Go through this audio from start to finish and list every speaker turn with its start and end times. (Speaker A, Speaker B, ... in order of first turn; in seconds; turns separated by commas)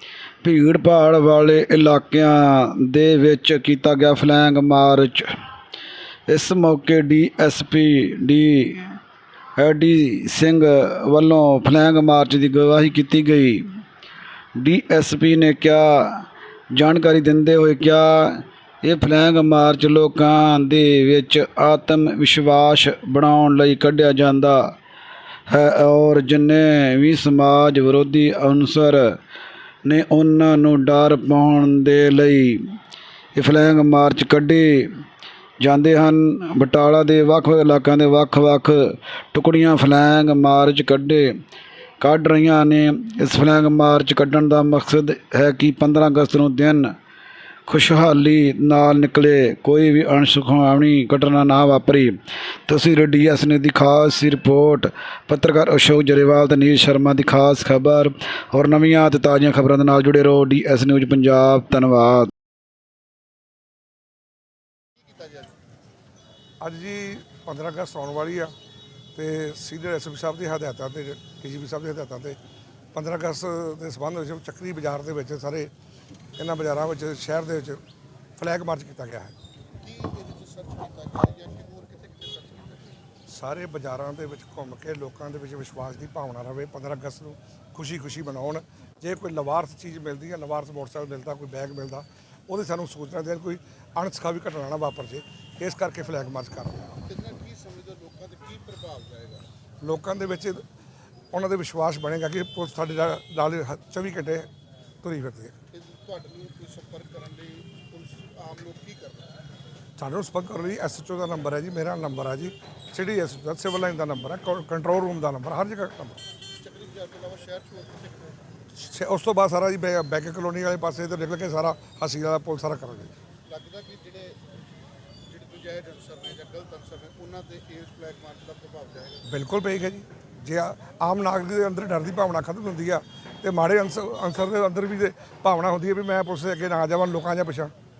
Speaker A: 0.4-5.3, Speaker A: 6.3-9.0, Speaker A: 9.6-13.6, Speaker A: 14.6-24.7, Speaker A: 25.5-29.1, Speaker A: 29.9-32.6, Speaker A: 33.4-34.9, Speaker A: 35.6-41.3, Speaker A: 42.0-46.9, Speaker A: 47.7-62.3, Speaker B: 65.0-65.5, Speaker C: 66.6-68.5, Speaker C: 69.2-72.4, Speaker C: 72.9-75.7, Speaker C: 76.4-77.8, Speaker C: 78.4-79.3, Speaker B: 79.8-82.9, Speaker C: 83.3-97.0, Speaker B: 97.1-99.5, Speaker C: 99.8-100.6, Speaker C: 101.3-104.5, Speaker C: 105.0-105.5, Speaker B: 105.7-109.3, Speaker C: 110.0-116.2, Speaker B: 116.5-118.4, Speaker C: 118.8-123.1, Speaker B: 123.5-124.4, Speaker B: 125.3-129.3, Speaker C: 129.3-137.7